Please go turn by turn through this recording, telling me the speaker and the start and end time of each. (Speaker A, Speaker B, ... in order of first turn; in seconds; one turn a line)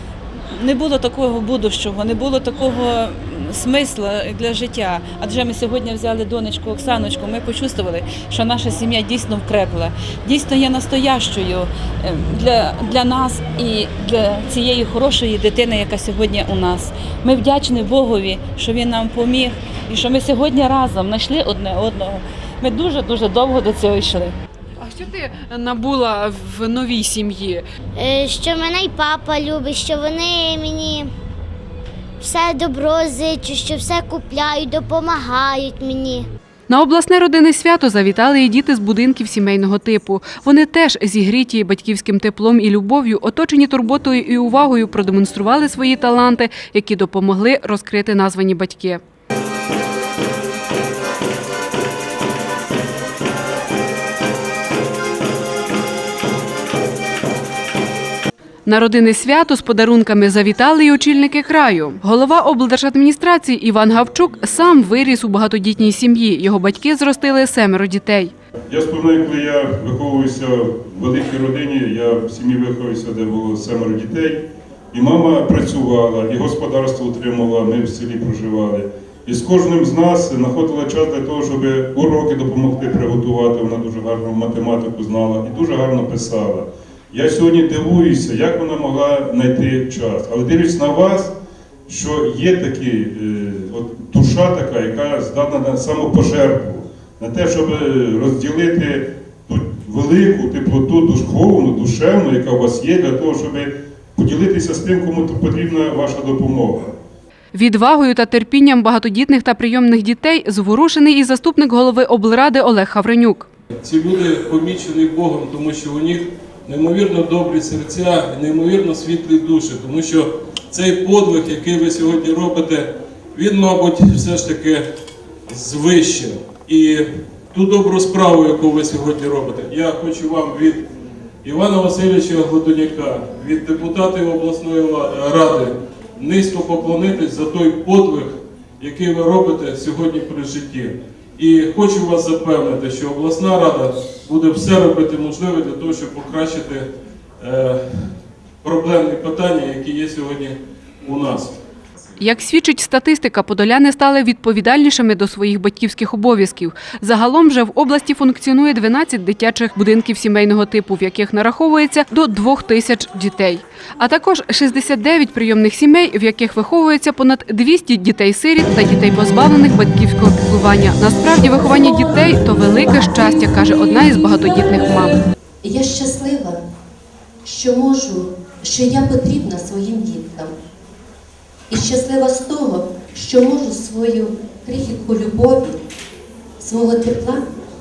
Speaker A: 0.5-24.3
Speaker B: 24.8-27.6
Speaker C: 27.9-31.1
Speaker C: 32.2-36.2
Speaker B: 36.7-49.0
Speaker B: 58.6-68.3
Speaker D: 68.7-91.3
Speaker D: 91.9-106.9
Speaker B: 107.5-113.5
Speaker E: 113.8-124.9
Speaker E: 125.5-130.9
Speaker E: 131.4-146.9
Speaker E: 147.4-151.5
Speaker B: 152.2-175.1
Speaker F: 175.6-176.6
Speaker F: 177.4-180.5
Speaker F: 181.7-185.8
Speaker F: 186.6-187.5